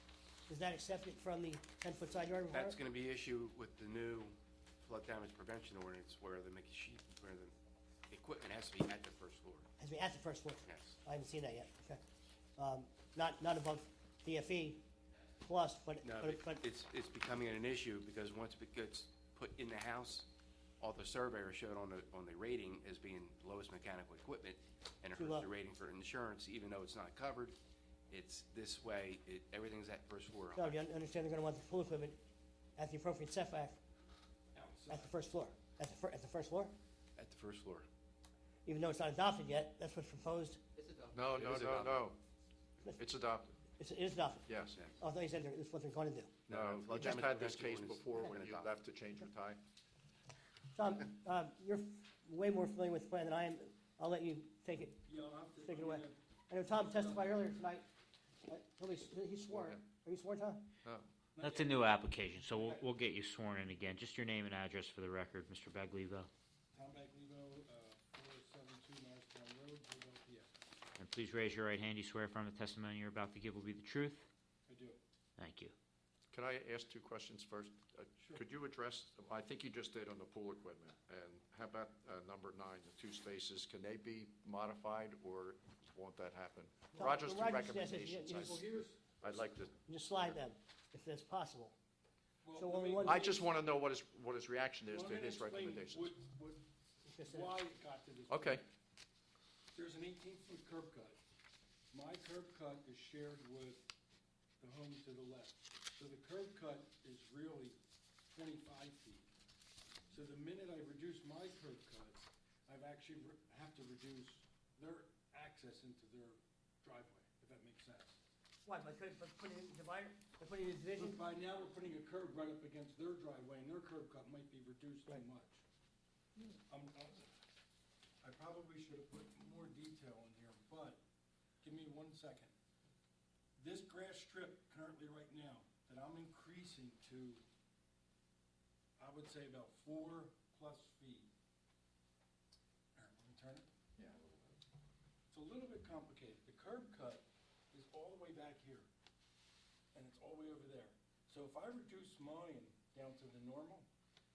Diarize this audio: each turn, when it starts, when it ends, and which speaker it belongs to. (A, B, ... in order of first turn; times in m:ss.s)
0:00.5-0:02.8 A
0:02.5-0:07.5 B
0:08.1-0:09.7 B
0:09.8-0:12.0 A
0:10.6-0:11.0 B
0:12.6-0:14.8 A
0:15.4-0:16.7 A
0:16.0-0:20.3 B
0:20.8-0:27.6 B
0:25.1-0:25.5 A
0:28.1-0:30.8 B
0:30.6-0:32.2 A
0:32.8-0:33.8 A
0:34.5-0:35.2 C
0:34.9-0:36.8 A
0:37.2-0:37.9 B
0:38.6-0:40.6 A
0:41.1-0:42.2 D
0:41.3-0:42.0 B
0:43.0-0:43.5 D
0:43.8-0:44.5 A
0:44.5-0:44.8 D
0:44.7-0:45.0 B
0:45.0-0:46.3 A
0:46.5-0:48.7 B
0:46.5-0:49.6 D
0:50.7-0:55.0 A
0:55.0-0:57.5 C
0:55.6-0:57.9 A
0:58.5-1:00.7 A
0:59.5-0:59.8 D
1:01.4-1:01.9 C
1:01.4-1:06.3 E
1:02.5-1:02.8 C
1:06.7-1:10.6 C
1:11.0-1:14.3 E
1:14.7-1:15.0 C
1:15.4-1:15.7 E
1:16.3-1:28.6 D
1:26.9-1:28.7 A
1:28.4-1:29.0 C
1:29.2-1:30.4 D
1:29.9-1:31.8 A
1:32.4-1:33.5 C
1:32.6-1:33.3 A
1:33.0-1:36.1 D
1:34.9-1:36.6 C
1:37.1-1:37.5 A
1:37.2-1:38.6 C
1:38.3-1:38.6 D
1:39.7-1:41.2 C
1:41.9-1:43.9 C
1:44.6-1:47.8 C
1:48.3-1:49.3 C
1:50.1-1:58.2 C
1:58.6-2:01.2 A
2:01.0-2:05.6 C
2:06.7-2:07.3 C
2:08.2-2:11.0 C
2:11.6-2:12.5 C
2:13.6-2:17.4 C
2:19.0-2:21.3 C
2:23.0-2:23.7 C
2:24.0-2:24.6 D
2:25.3-2:28.9 C
2:29.9-2:33.9 C